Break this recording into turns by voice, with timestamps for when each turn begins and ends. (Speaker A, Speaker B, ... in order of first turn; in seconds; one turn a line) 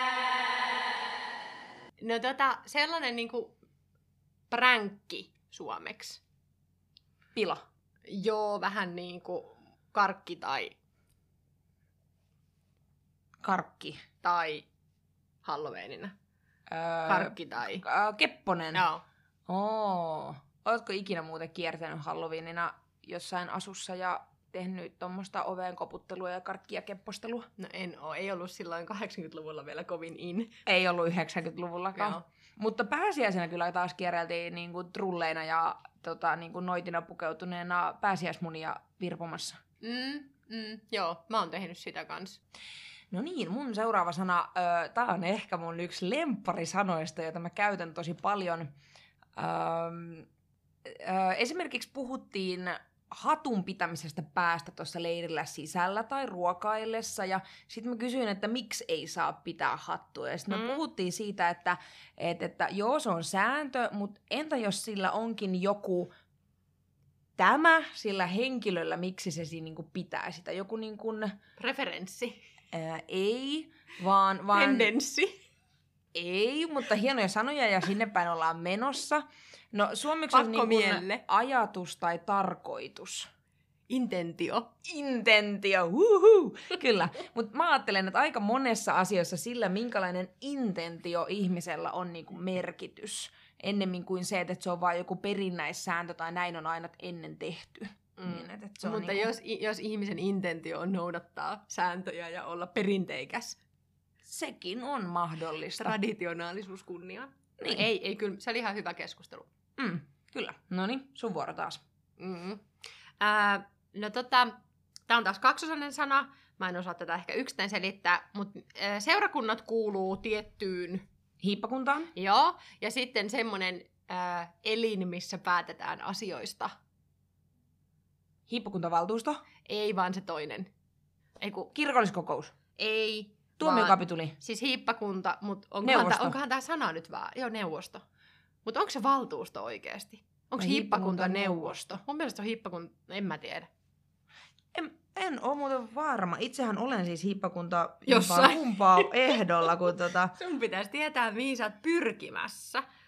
Speaker A: 2.0-3.5
Speaker A: 4.5-6.2
Speaker B: 7.3-7.6
Speaker A: 8.1-10.7
Speaker B: 13.4-14.0
Speaker A: 14.2-14.7
Speaker A: 15.4-16.1
Speaker B: 16.7-18.9
Speaker A: 17.0-17.8
Speaker A: 18.7-19.0
Speaker B: 19.5-27.5
Speaker A: 27.6-30.5
Speaker B: 30.6-39.6
Speaker A: 39.8-42.4
Speaker B: 43.1-48.7
Speaker B: 49.4-50.3
Speaker B: 50.8-66.1
Speaker A: 60.5-60.8
Speaker B: 67.4-71.4
Speaker A: 71.6-72.4
Speaker B: 72.7-74.9
Speaker A: 74.5-75.3
Speaker B: 76.1-83.3
Speaker A: 80.3-81.2
Speaker A: 83.9-84.7
Speaker B: 84.8-99.3
Speaker A: 98.2-103.6
Speaker B: 104.2-106.0
Speaker A: 105.8-109.5
Speaker B: 107.6-107.9
Speaker B: 109.8-111.8
Speaker A: 112.2-112.6
Speaker A: 113.2-114.5
Speaker A: 115.1-121.0
Speaker B: 121.4-122.1
Speaker A: 122.1-126.7
Speaker B: 128.5-129.4
Speaker A: 129.7-130.7
Speaker A: 131.4-131.7
Speaker B: 131.7-132.5
Speaker A: 132.8-138.0
Speaker B: 133.6-134.3
Speaker B: 135.8-136.4
Speaker A: 138.6-143.7
Speaker B: 140.6-141.8
Speaker B: 144.7-150.3
Speaker A: 148.1-149.7
Speaker A: 150.3-152.8